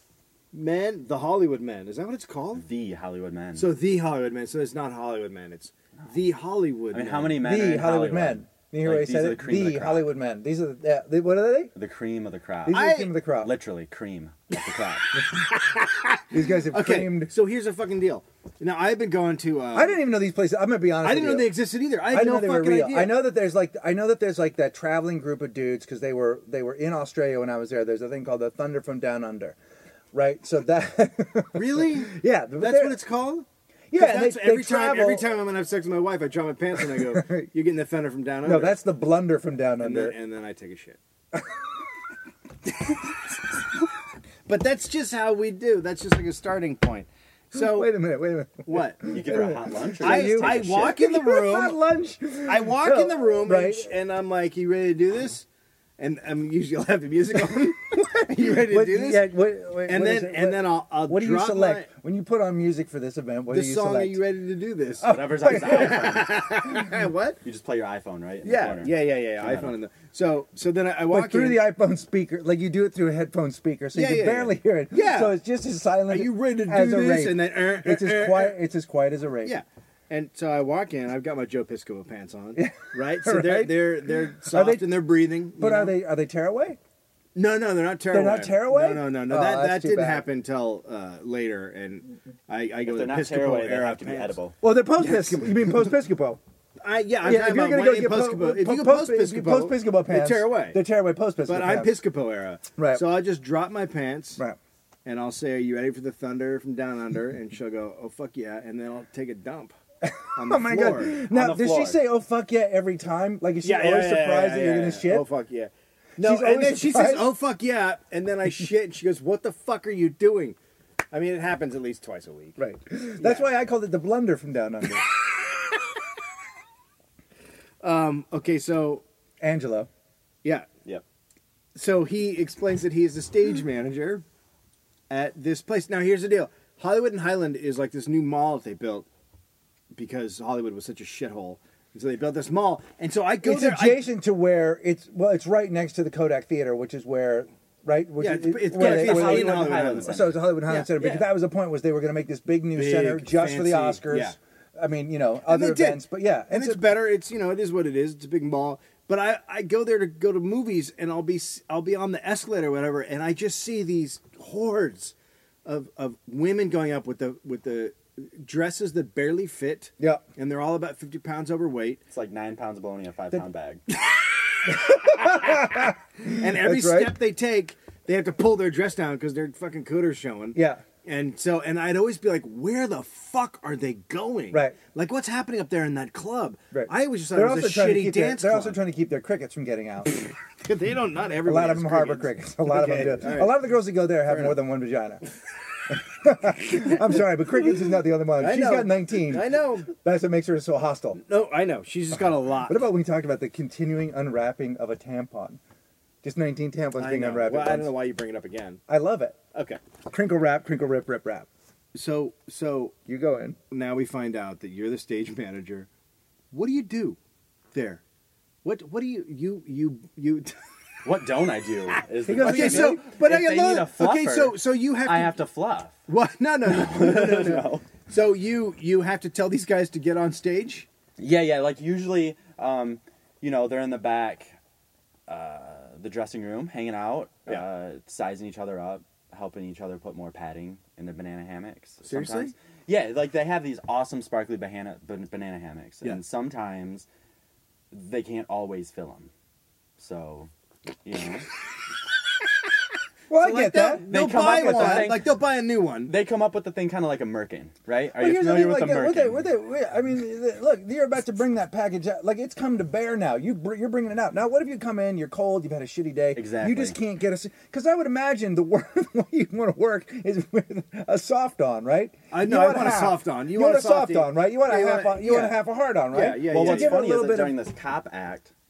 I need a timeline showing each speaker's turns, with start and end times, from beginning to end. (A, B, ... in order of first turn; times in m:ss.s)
0:00.5-0:02.6 A
0:02.5-0:03.7 B
0:03.5-0:07.4 A
0:06.9-0:10.1 B
0:07.4-0:11.7 C
0:11.7-0:15.2 B
0:12.6-0:13.5 C
0:12.7-0:13.2 A
0:15.2-0:20.0 A
0:16.3-0:17.3 C
0:19.7-0:29.6 C
0:21.0-0:23.2 A
0:30.1-0:33.0 C
0:31.5-0:38.8 A
0:33.9-0:35.3 C
0:36.9-0:37.5 C
0:38.4-0:40.2 C
0:39.8-0:41.0 A
0:44.4-0:47.9 A
0:47.5-0:53.9 C
0:48.6-0:49.0 A
0:49.1-0:51.0 B
0:50.0-0:51.8 A
0:52.4-0:55.4 A
0:56.0-1:01.9 A
0:58.0-1:04.2 C
1:03.5-1:07.4 A
1:05.0-1:06.0 C
1:05.0-1:06.6 B
1:07.4-1:09.8 B
1:08.4-1:11.6 A
1:11.1-1:19.6 C
1:13.9-1:15.4 A
1:16.1-1:18.6 A
1:19.4-1:26.0 A
1:22.6-1:24.9 C
1:25.6-1:26.8 C
1:27.3-1:34.4 A
1:28.1-1:30.2 C
1:32.8-1:34.6 B
1:34.6-1:36.4 C
1:35.0-1:35.7 A
1:36.8-1:40.8 A
1:37.2-1:42.0 C
1:41.4-1:44.4 A
1:42.8-1:43.0 C
1:45.0-1:49.8 A
1:50.0-1:55.3 C
1:50.3-1:51.2 A
1:51.2-1:52.0 B
1:53.6-2:00.6 A
1:56.2-1:57.3 C
2:01.1-2:02.6 A
2:02.6-2:05.1 C
2:03.2-2:03.5 A
2:07.8-2:09.0 A
2:09.4-2:09.9 C
2:11.7-2:14.2 A
2:15.1-2:19.1 A
2:19.9-2:24.1 A
2:23.4-2:36.8 C
2:28.2-2:30.9 A
2:28.7-2:31.2 B
2:32.7-2:34.4 A
2:35.4-2:52.0 A
2:52.1-2:53.8 B
2:54.8-2:57.2 C
2:55.2-2:55.6 A
2:56.2-3:08.8 A
3:00.5-3:00.8 C
3:04.5-3:04.8 C
3:06.7-3:10.2 C
3:10.6-3:13.6 A
3:11.4-3:15.2 C
3:14.2-3:14.6 A
3:15.9-3:21.2 C
3:18.4-3:19.9 A
3:21.2-3:22.8 A
3:22.7-3:25.6 C
3:26.2-3:27.9 C
3:27.0-3:28.8 A
3:28.9-3:29.4 C
3:29.5-3:29.8 A
3:30.1-3:31.5 C
3:31.9-3:32.9 A
3:33.1-3:33.6 C
3:33.7-3:35.9 A
3:36.5-3:37.2 A
3:37.7-3:38.0 A
3:38.6-3:40.6 A
3:41.0-3:46.0 B
3:42.2-3:43.0 C
3:42.3-3:45.4 A
3:46.1-3:50.9 A
3:46.6-3:47.9 B
3:51.2-3:54.6 B
3:55.3-4:07.1 B
4:02.0-4:02.5 A
4:07.9-4:09.3 B
4:10.0-4:10.5 B
4:11.0-4:11.5 B
4:13.3-4:15.2 C
4:13.3-4:16.1 A
4:14.0-4:15.4 B
4:16.0-4:19.4 B
4:18.2-4:37.6 C
4:26.3-4:27.0 B
4:32.3-4:37.2 A
4:36.2-4:38.5 B